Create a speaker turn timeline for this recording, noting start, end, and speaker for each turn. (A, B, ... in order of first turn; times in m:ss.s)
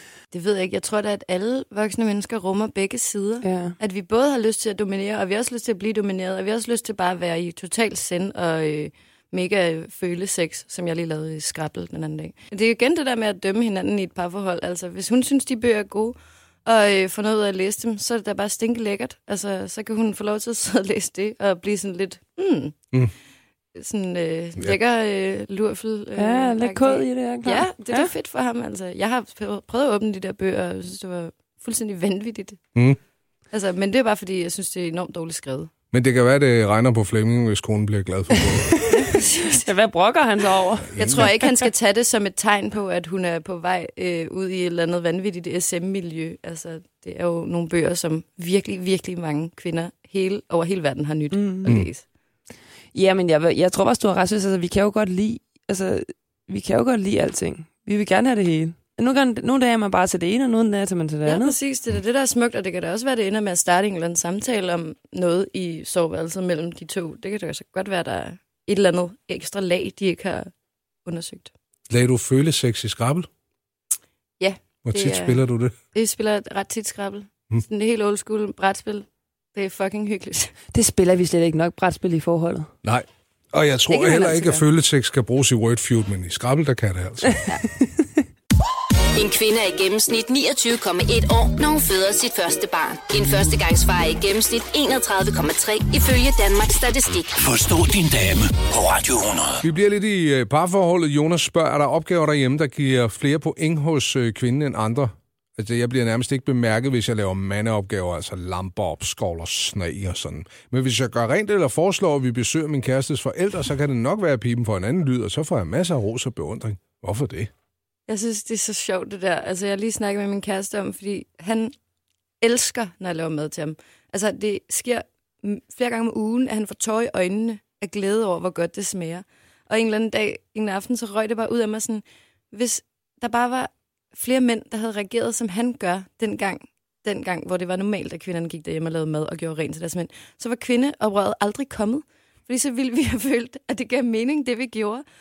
0:00.3-0:22.8 A
0:03.4-0:03.8 B
0:23.7-0:32.6 A
0:26.2-0:28.1 B
0:33.5-0:35.7 A
0:35.9-0:38.8 C
0:38.5-0:41.6 B
0:38.9-0:39.7 A
0:40.8-0:41.3 C
0:41.0-0:52.0 A
0:51.3-0:51.7 B
0:52.9-1:01.5 B
1:01.2-1:10.5 A
1:11.0-1:11.5 A
1:11.9-1:13.3 C
1:14.4-1:20.5 A
1:14.8-1:15.7 C
1:20.7-1:22.7 B
1:22.8-1:27.4 C
1:23.9-1:24.6 A
1:27.3-1:28.0 B
1:29.1-1:37.4 D
1:37.4-1:39.6 E
1:39.6-1:57.5 C
1:58.1-2:01.7 A
2:02.4-2:25.0 A